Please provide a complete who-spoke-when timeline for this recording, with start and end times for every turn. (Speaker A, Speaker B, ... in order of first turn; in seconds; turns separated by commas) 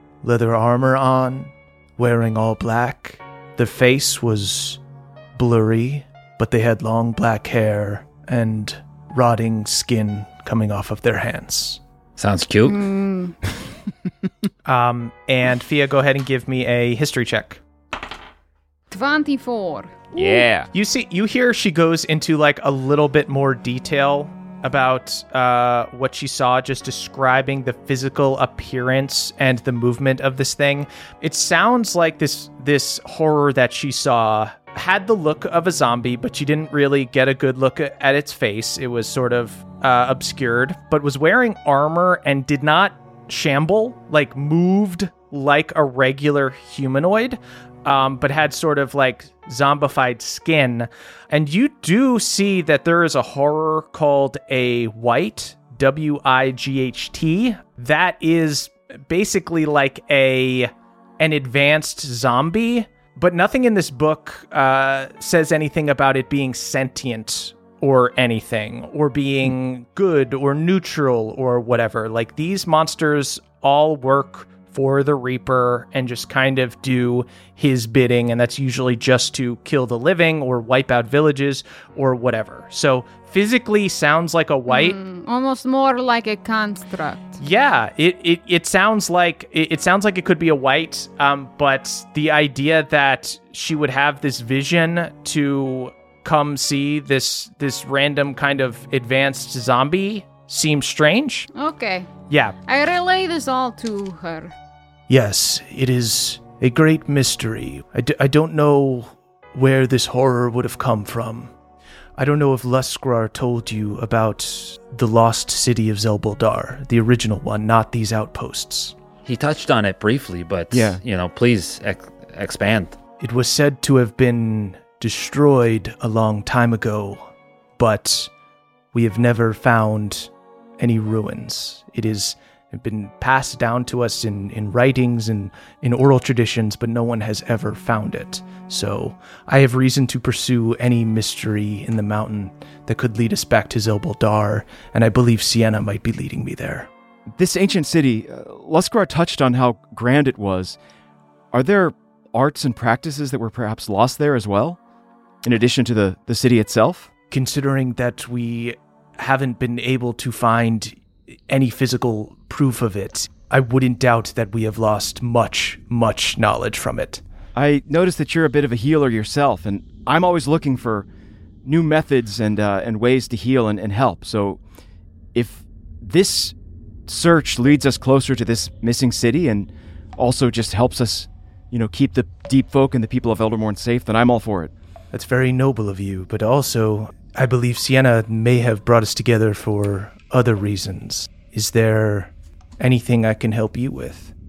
Speaker A: 0.2-4.8, Speaker A: 5.3-11.8, Speaker B: 12.2-12.8, Speaker C: 12.7-13.4, Speaker A: 14.7-17.6, Speaker C: 18.9-20.4, Speaker D: 20.1-20.7, Speaker A: 20.7-85.0, Speaker C: 84.7-87.4, Speaker A: 87.4-101.5, Speaker C: 101.5-102.1, Speaker A: 102.3-102.6, Speaker C: 102.7-104.5, Speaker A: 105.1-111.5, Speaker A: 112.2-118.9, Speaker B: 119.2-123.0, Speaker D: 120.7-121.0, Speaker A: 123.2-128.3, Speaker A: 128.9-146.9, Speaker D: 147.3-150.8, Speaker D: 151.5-154.8, Speaker D: 155.4-157.1, Speaker A: 157.3-167.2, Speaker D: 167.5-171.1, Speaker D: 171.6-174.6, Speaker D: 175.3-176.5, Speaker D: 177.1-184.7, Speaker A: 185.1-194.3